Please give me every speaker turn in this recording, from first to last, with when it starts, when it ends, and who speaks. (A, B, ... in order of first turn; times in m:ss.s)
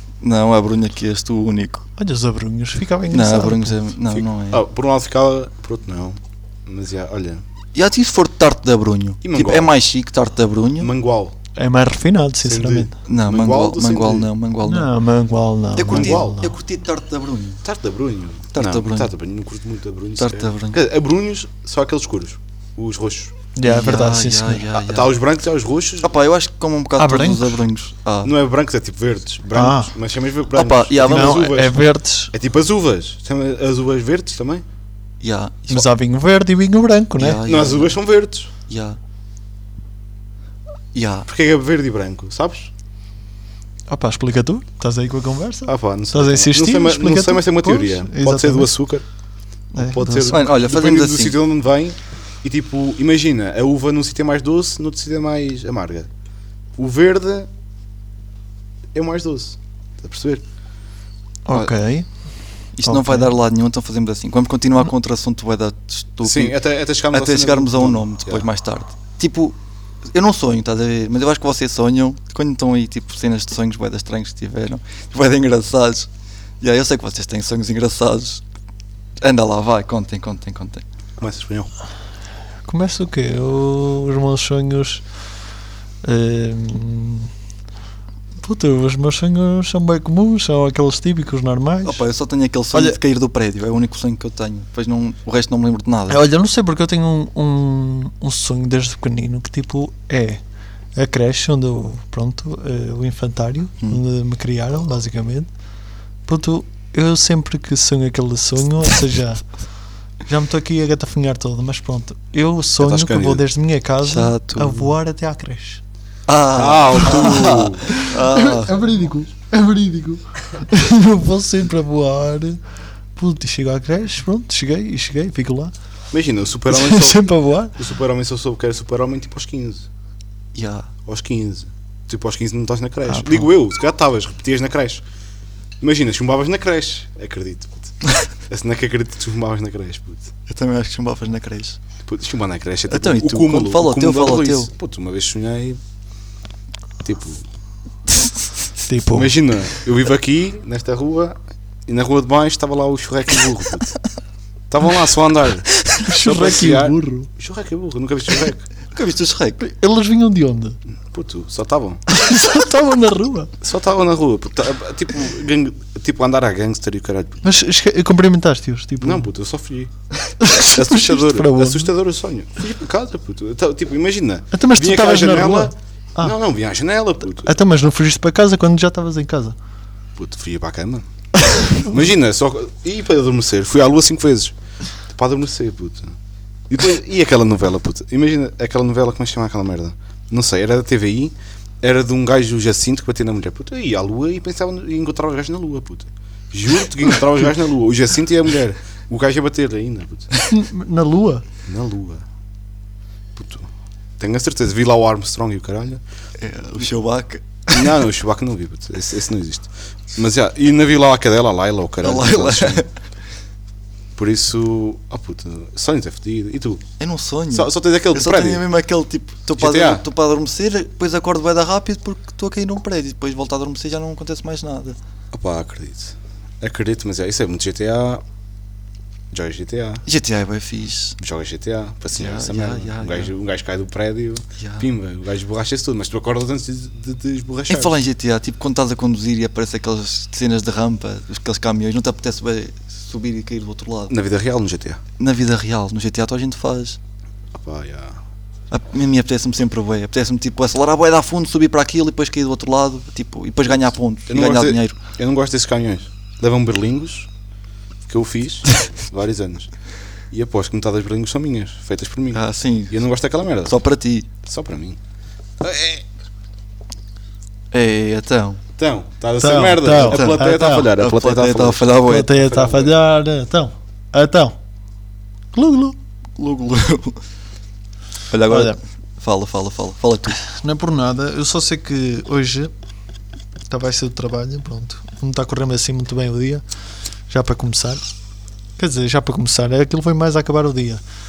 0:00.2-0:01.8 A
0:02.0-0:03.9 B
0:03.1-0:04.6 A
0:04.1-0:07.4 C
0:07.7-0:10.9 A
0:09.2-0:09.7 C
0:10.8-0:11.3 C
0:11.6-0:12.9 B
0:12.4-0:14.3 C
0:13.0-0:14.9 A
0:14.6-0:16.5 B
0:15.8-0:17.6 A
0:15.9-0:16.4 C
0:17.6-0:23.3 C
0:18.5-0:19.1 A
0:20.2-0:20.8 A
0:23.5-0:24.7 B
0:23.6-0:25.2 A
0:24.8-0:26.1 C
0:26.0-0:28.3 A
0:27.0-0:27.6 B
0:28.2-0:31.8 C
0:29.5-0:29.9 B
0:30.5-0:31.5 A
0:31.0-0:32.3 B
0:32.3-0:34.6 C
0:35.2-0:35.9 A
0:35.7-0:37.4 B
0:37.2-0:38.0 A
0:37.4-0:38.5 C
0:38.7-0:39.0 A
0:40.9-0:41.3 A
0:41.3-0:42.7 C
0:43.9-0:48.7 B
0:45.7-0:49.0 C
0:49.7-0:50.4 B
0:49.7-0:56.1 C
0:50.3-0:51.4 A
0:56.8-0:57.5 C
0:58.9-1:00.4 C
1:01.4-1:02.1 B
1:02.8-1:06.6 A
1:02.8-1:03.3 B
1:06.2-1:08.4 C
1:07.1-1:16.1 A
1:16.6-1:18.4 A
1:19.2-1:20.8 A
1:21.2-1:21.7 C
1:22.7-1:25.0 B
1:26.0-1:27.3 B
1:28.4-1:32.0 B
1:31.8-1:36.2 A
1:36.1-1:40.4 B
1:40.9-1:45.5 B
1:46.3-1:49.4 B
1:50.3-1:55.8 B
1:52.8-1:53.4 C
1:54.0-1:54.9 A
1:56.3-1:58.8 A
1:56.5-1:57.9 C
1:57.0-2:02.6 B
2:03.1-2:05.7 B
2:06.1-2:09.8 C
2:06.7-2:07.8 B
2:10.5-2:10.9 A
2:11.0-2:15.0 C
2:13.1-2:13.5 B
2:15.8-2:18.0 C
2:18.5-2:20.3 C
2:20.5-2:21.8 A
2:22.0-2:25.8 C
2:22.9-2:24.7 A
2:27.0-2:27.4 C
2:28.8-2:29.3 B
2:29.1-2:31.4 C
2:31.9-2:34.0 C
2:34.7-2:38.7 C
2:36.0-2:37.3 B
2:38.9-2:39.6 A
2:39.6-2:40.8 B
2:41.1-2:42.0 C
2:42.1-2:43.5 B
2:43.6-2:47.4 C
2:47.4-2:49.3 B
2:49.0-2:49.9 C
2:50.4-2:51.9 B
2:50.5-2:57.5 C
2:54.5-2:56.3 B
2:57.4-2:59.6 B
3:00.2-3:01.0 C
3:01.5-3:01.8 B
3:01.7-3:04.5 C
3:05.1-3:06.2 C
3:06.7-3:20.3 C
3:20.4-3:21.4 B
3:21.7-3:22.2 C
3:23.4-3:23.7 C
3:24.2-3:26.0 C
3:26.4-3:28.0 A
3:27.7-3:32.8 C
3:32.0-3:32.9 A
3:34.2-3:36.8 C
3:37.0-3:45.0 A
3:37.5-3:38.6 C
3:39.6-3:40.0 C
3:45.3-3:48.2 C
3:49.3-3:50.0 C
3:50.0-3:51.2 A
3:51.2-3:58.0 C
3:52.1-3:53.3 A
3:54.6-3:54.9 A
3:57.7-4:04.1 A
4:04.1-4:05.0 C
4:05.2-4:07.0 A
4:07.5-4:08.2 C
4:08.7-4:15.0 A
4:14.3-4:17.3 C
4:18.0-4:19.7 C
4:20.3-4:23.8 C
4:22.3-4:23.0 A
4:23.6-4:24.3 A
4:24.4-4:25.0 C
4:25.6-4:26.0 C
4:27.7-4:28.6 A
4:28.8-4:32.9 C
4:29.4-4:30.9 B
4:30.0-4:30.4 A
4:30.9-4:32.3 A
4:32.0-4:34.6 B
4:35.5-4:36.0 B
4:36.4-4:37.2 A
4:38.3-4:40.4 A
4:38.5-4:38.8 B
4:40.4-4:42.7 B
4:43.7-4:46.6 B
4:47.3-4:48.0 B
4:48.8-4:51.0 B